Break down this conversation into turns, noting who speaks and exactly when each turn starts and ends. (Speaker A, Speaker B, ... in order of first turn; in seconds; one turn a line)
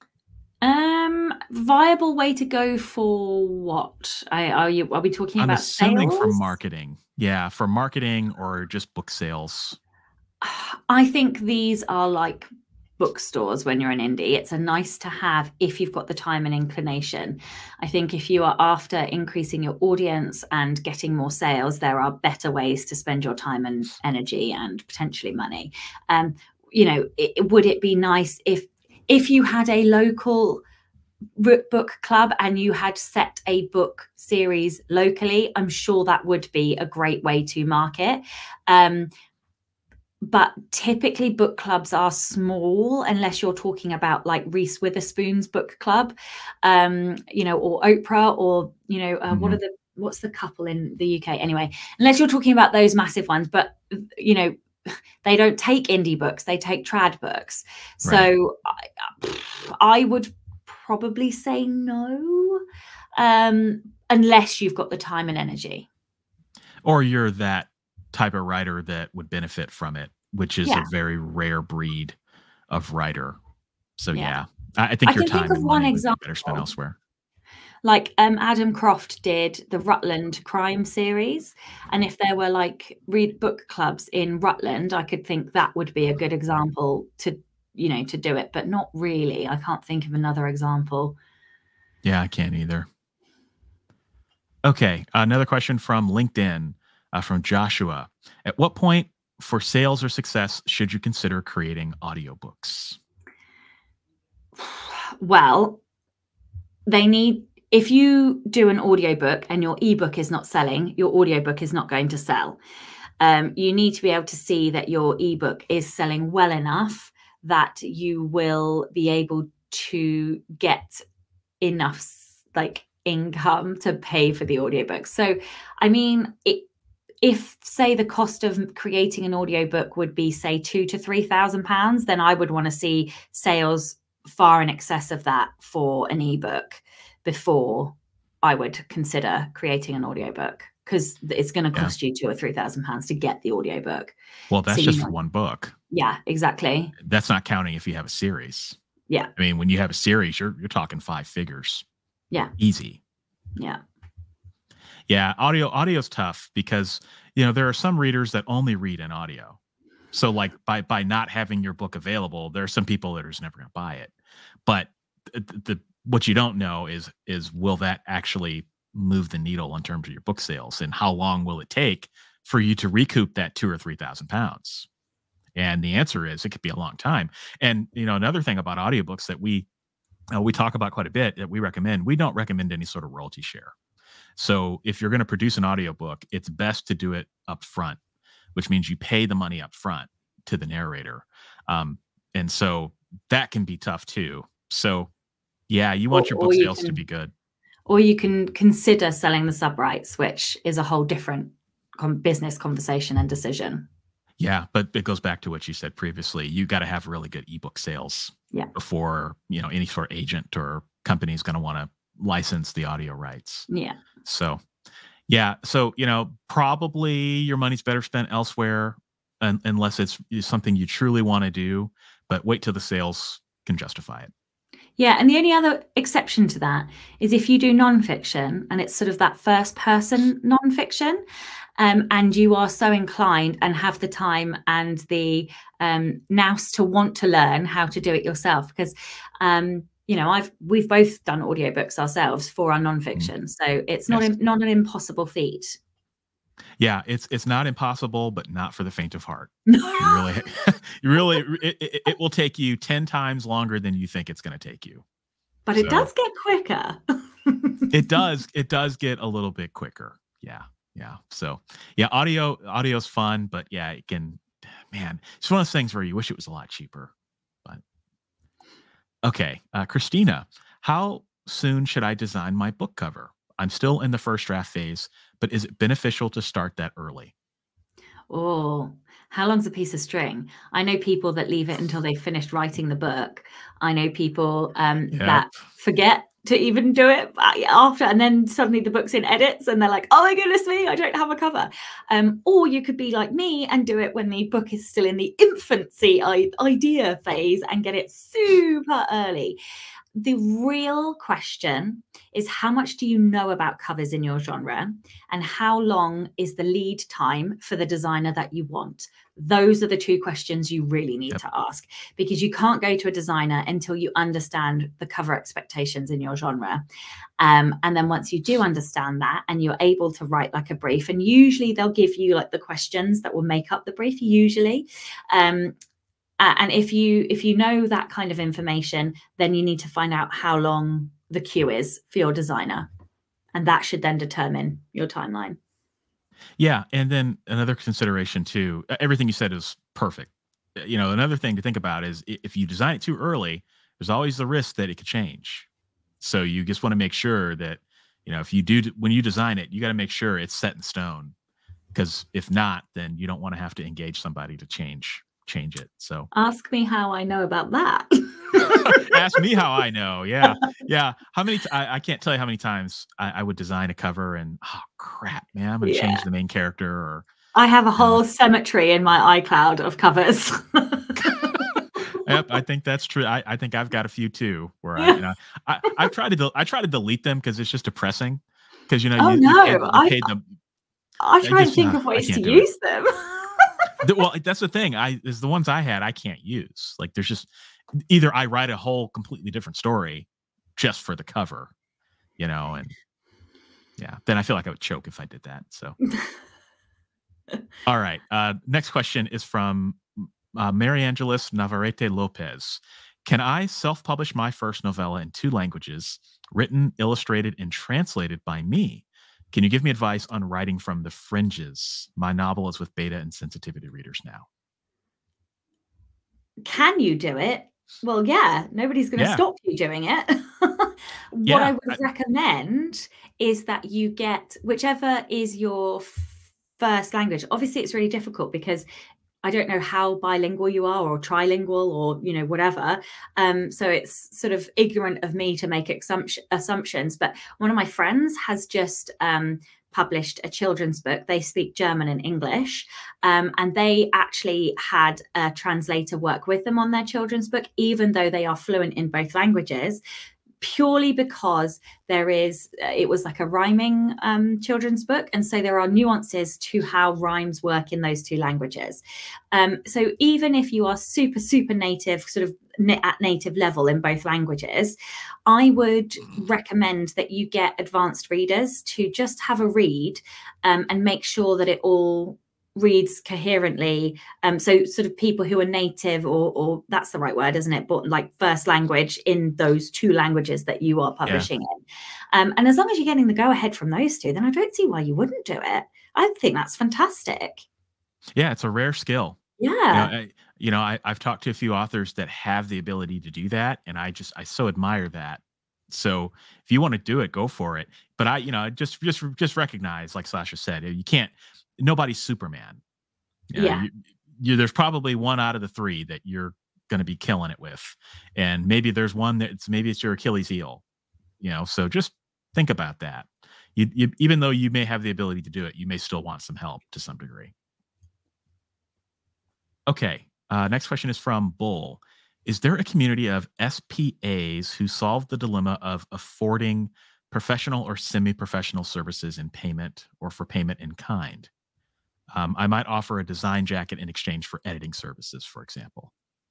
Speaker A: 0.6-6.5
Speaker B: 5.4-9.8
Speaker A: 10.4-30.6
Speaker A: 31.4-39.1
Speaker A: 40.2-62.6
Speaker B: 49.3-49.6
Speaker A: 63.1-65.9
Speaker B: 66.8-72.2
Speaker A: 70.6-70.9
Speaker B: 72.7-73.4
Speaker B: 74.0-77.0
Speaker A: 74.1-74.4
Speaker A: 75.0-76.7
Speaker A: 77.8-91.2
Speaker B: 92.0-92.9
Speaker B: 94.6-103.0
Speaker A: 104.6-105.8
Speaker A: 106.8-112.6
Speaker A: 113.2-121.0
Speaker A: 121.6-126.7
Speaker A: 127.2-144.1
Speaker B: 144.5-145.7
Speaker A: 144.7-145.1
Speaker A: 145.9-146.9
Speaker B: 147.0-148.8
Speaker B: 149.3-151.8
Speaker B: 152.6-153.0
Speaker B: 155.1-159.6
Speaker B: 160.1-164.1
Speaker B: 164.7-174.9
Speaker B: 175.6-179.7
Speaker B: 180.3-183.7
Speaker B: 184.3-188.0
Speaker B: 188.5-195.1
Speaker B: 195.7-197.3
Speaker A: 196.1-197.0
Speaker A: 197.9-203.9
Speaker B: 204.4-213.7
Speaker A: 213.7-214.0
Speaker B: 214.2-214.6
Speaker B: 215.3-224.3
Speaker A: 225.0-231.2
Speaker A: 231.8-245.8
Speaker B: 246.8-255.0
Speaker A: 249.7-250.3
Speaker A: 255.7-257.9
Speaker B: 255.8-256.1
Speaker B: 257.9-267.1
Speaker B: 269.2-277.3
Speaker A: 278.3-299.6
Speaker B: 285.1-285.4
Speaker A: 300.1-316.8
Speaker A: 317.4-325.7
Speaker A: 326.4-332.9
Speaker A: 333.5-335.6
Speaker B: 336.6-345.7
Speaker B: 346.2-351.3
Speaker B: 351.9-356.3
Speaker A: 356.3-359.2
Speaker B: 358.6-367.2
Speaker A: 365.8-366.2
Speaker A: 367.5-371.6
Speaker B: 371.2-380.4
Speaker A: 379.2-380.2
Speaker A: 381.2-383.4
Speaker B: 381.4-382.7
Speaker B: 384.0-387.5
Speaker B: 388.0-391.7
Speaker B: 392.4-392.9
Speaker B: 394.0-396.0
Speaker B: 397.9-414.5
Speaker A: 416.6-428.9
Speaker B: 419.2-419.4
Speaker B: 421.4-422.0
Speaker A: 429.4-450.0
Speaker A: 450.6-481.8
Speaker A: 482.3-487.6
Speaker B: 488.4-489.4
Speaker A: 489.6-490.1
Speaker B: 489.9-502.8
Speaker B: 503.5-510.8
Speaker A: 503.5-503.9
Speaker B: 511.4-517.5
Speaker B: 519.9-531.5
Speaker B: 532.3-536.1